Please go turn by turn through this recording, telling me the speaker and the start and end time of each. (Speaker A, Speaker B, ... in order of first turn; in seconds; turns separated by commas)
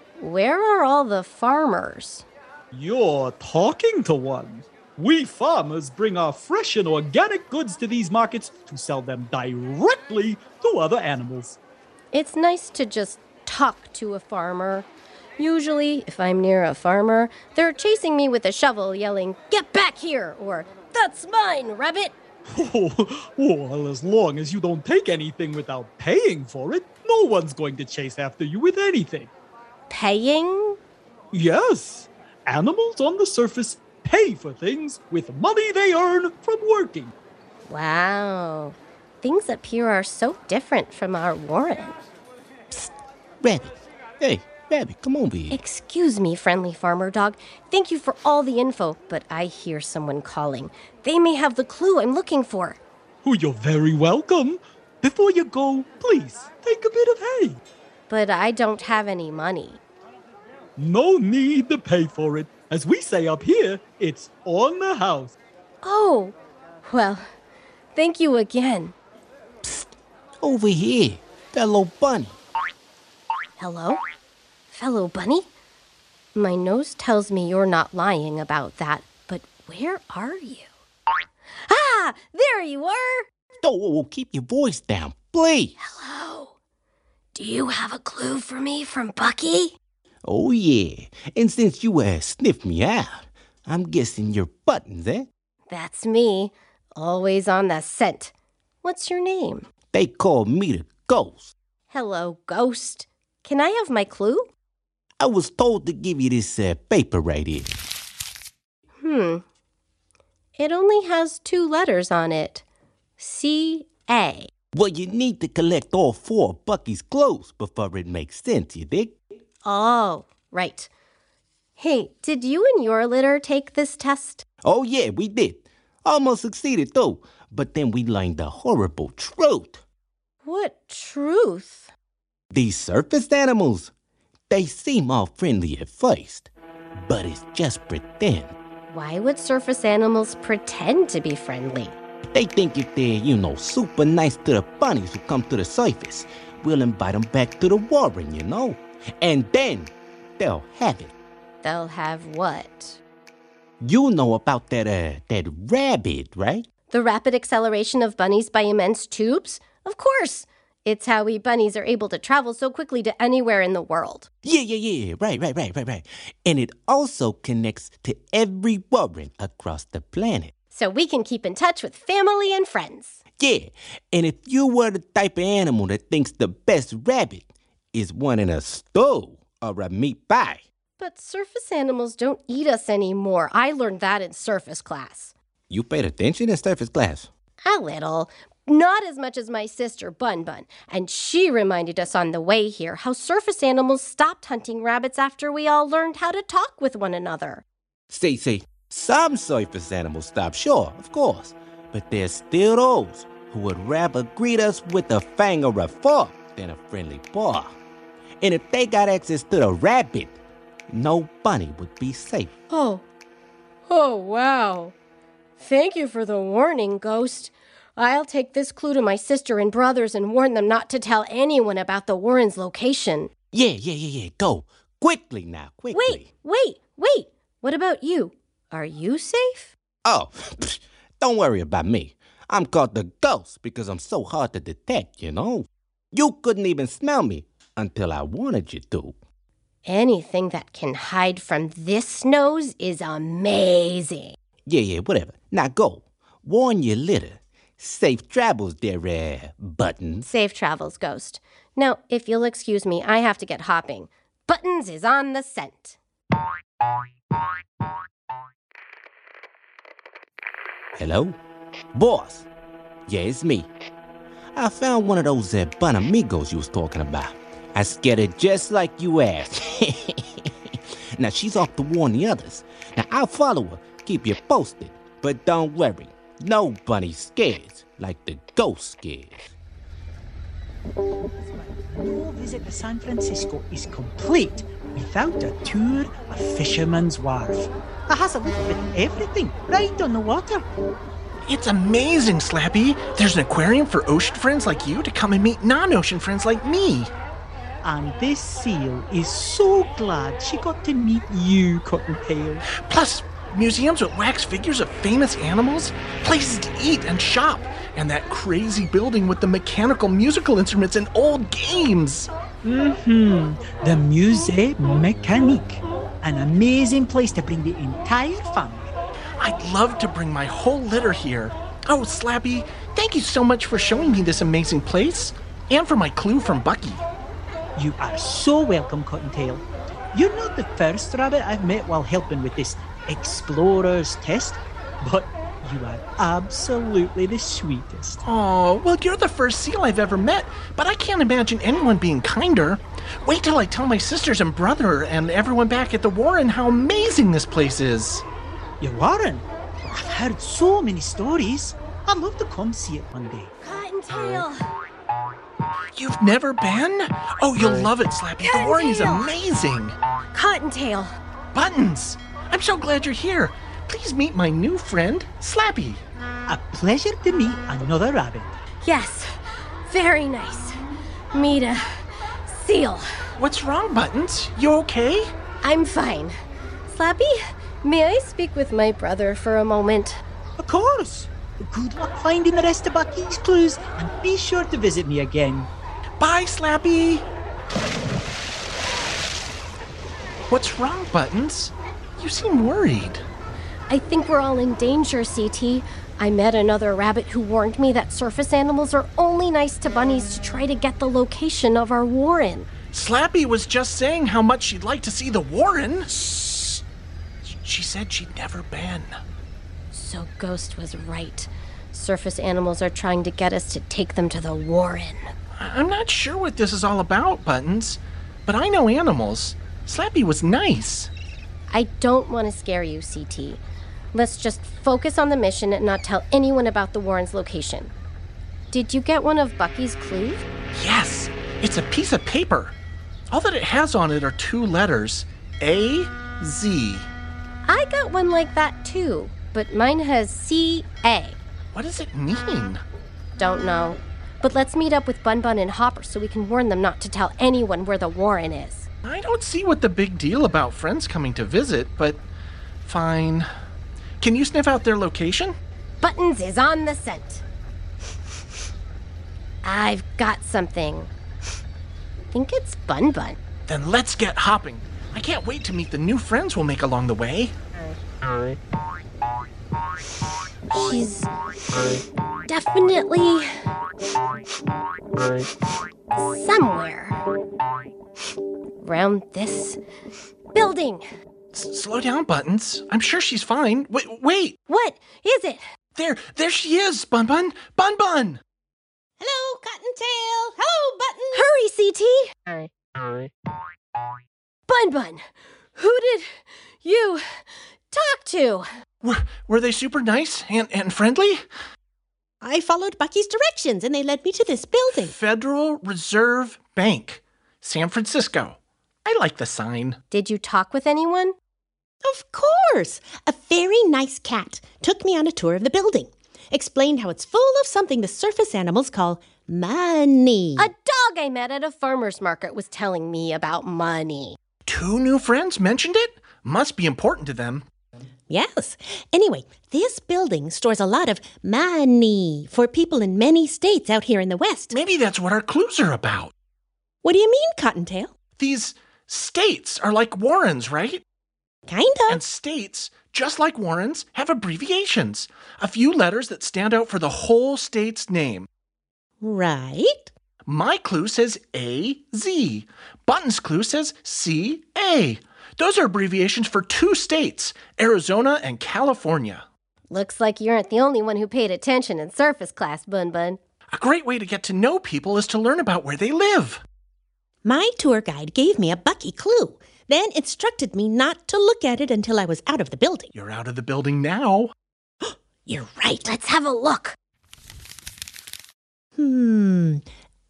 Speaker A: 0.2-2.2, Speaker B: 2.7-11.6, Speaker A: 12.1-22.1, Speaker B: 22.5-29.3, Speaker A: 29.9-30.8, Speaker B: 31.3-37.1, Speaker A: 37.7-42.0, Speaker C: 43.4-45.6, Speaker A: 45.5-52.8, Speaker B: 53.2-57.6, Speaker A: 58.1-59.8, Speaker B: 60.8-65.3, Speaker A: 65.8-67.2, Speaker A: 67.9-68.9, Speaker C: 69.6-72.4, Speaker A: 73.6-74.0, Speaker A: 74.7-75.5, Speaker A: 76.3-80.7, Speaker A: 81.7-83.3, Speaker C: 83.6-85.8, Speaker A: 85.8-86.5, Speaker A: 87.3-89.7, Speaker C: 90.2-95.3, Speaker A: 95.7-99.7, Speaker C: 99.9-101.5, Speaker A: 101.9-104.5, Speaker C: 105.2-107.7, Speaker A: 109.0-109.4, Speaker A: 110.6-112.6, Speaker A: 113.2-114.5, Speaker C: 114.7-119.1, Speaker A: 119.6-120.9, Speaker A: 121.8-124.4, Speaker C: 124.6-129.8, Speaker A: 130.4-131.9, Speaker C: 132.5-133.9, Speaker C: 134.5-136.5, Speaker C: 137.0-138.5, Speaker A: 138.9-141.9, Speaker C: 142.3-151.1, Speaker A: 151.6-153.0, Speaker C: 153.8-156.7, Speaker A: 156.9-164.3, Speaker C: 164.4-170.5, Speaker A: 170.7-173.2, Speaker C: 173.4-180.6, Speaker A: 181.0-185.3, Speaker C: 185.7-187.3, Speaker A: 187.6-197.6, Speaker C: 198.1-207.8, Speaker C: 208.4-210.4, Speaker C: 210.9-212.5, Speaker A: 212.7-213.1, Speaker A: 213.9-214.9, Speaker A: 215.6-223.3, Speaker C: 223.5-226.3, Speaker A: 225.9-229.8, Speaker C: 230.1-239.1, Speaker A: 239.8-244.3, Speaker C: 244.7-250.2, Speaker A: 250.2-256.0, Speaker C: 261.0-261.4, Speaker C: 261.9-262.5, Speaker C: 263.1-263.7, Speaker C: 264.5-279.6, Speaker D: 281.8-287.5, Speaker D: 288.1-290.6, Speaker E: 291.4-297.1, Speaker D: 297.9-301.3, Speaker B: 301.3-302.6, Speaker E: 302.7-312.3, Speaker B: 312.6-315.0, Speaker D: 314.0-315.6, Speaker D: 316.2-318.8, Speaker B: 316.5-316.9, Speaker E: 319.4-327.0, Speaker D: 327.8-329.6, Speaker B: 329.0-329.6, Speaker D: 330.2-334.6, Speaker B: 331.9-332.7, Speaker B: 335.0-338.2, Speaker D: 335.8-337.8, Speaker E: 338.2-348.2, Speaker D: 348.8-353.5, Speaker A: 353.6-354.6, Speaker E: 356.0-360.0, Speaker A: 358.4-359.3, Speaker A: 360.3-361.1, Speaker E: 361.5-366.0, Speaker D: 366.5-368.5, Speaker A: 368.8-369.3, Speaker A: 369.9-370.8, Speaker A: 371.3-371.8, Speaker A: 372.5-373.0, Speaker E: 373.4-375.3, Speaker A: 375.6-376.3, Speaker A: 376.9-380.2, Speaker B: 380.6-381.8, Speaker D: 381.8-385.5, Speaker B: 384.8-385.7, Speaker E: 386.2-387.2, Speaker E: 390.5-393.2, Speaker A: 393.9-402.7, Speaker E: 402.9-406.1, Speaker A: 406.1-406.8, Speaker E: 407.5-409.1, Speaker A: 409.9-415.3, Speaker E: 415.6-421.1, Speaker A: 421.7-423.6, Speaker A: 424.1-427.9, Speaker A: 428.7-430.5, Speaker E: 430.8-432.8, Speaker E: 433.3-437.1, Speaker A: 437.6-441.4, Speaker E: 441.7-442.8, Speaker A: 443.4-448.9, Speaker E: 449.0-452.2, Speaker E: 452.8-453.5, Speaker E: 454.2-455.5, Speaker A: 456.0-457.4, Speaker A: 459.6-461.1, Speaker A: 462.3-463.4, Speaker E: 463.7-467.5, Speaker A: 470.7-471.8, Speaker A: 472.5-473.5, Speaker A: 476.1-477.2, Speaker A: 478.8-479.8, Speaker A: 480.5-481.0, Speaker E: 481.5-484.6, Speaker A: 484.7-485.6, Speaker E: 485.9-488.4, Speaker F: 489.2-491.5, Speaker A: 491.3-492.5, Speaker A: 494.7-495.2, Speaker A: 495.8-497.2, Speaker A: 497.9-498.6, Speaker E: 499.0-501.4, Speaker F: 502.4-505.1, Speaker E: 504.9-510.0, Speaker A: 510.1-511.4, Speaker F: 512.0-520.7, Speaker A: 520.6-524.4, Speaker E: 524.7-527.6, Speaker F: 528.3-534.8, Speaker E: 534.7-536.3, Speaker F: 537.0-538.1, Speaker E: 538.4-541.0, Speaker F: 541.7-542.2, Speaker E: 542.1-548.5, Speaker F: 549.2-550.1, Speaker E: 550.5-559.5, Speaker A: 559.9-563.4, Speaker E: 563.7-566.6, Speaker F: 567.5-573.1, Speaker E: 573.1-574.5, Speaker F: 575.5-576.1, Speaker A: 576.0-577.0, Speaker F: 579.0-579.8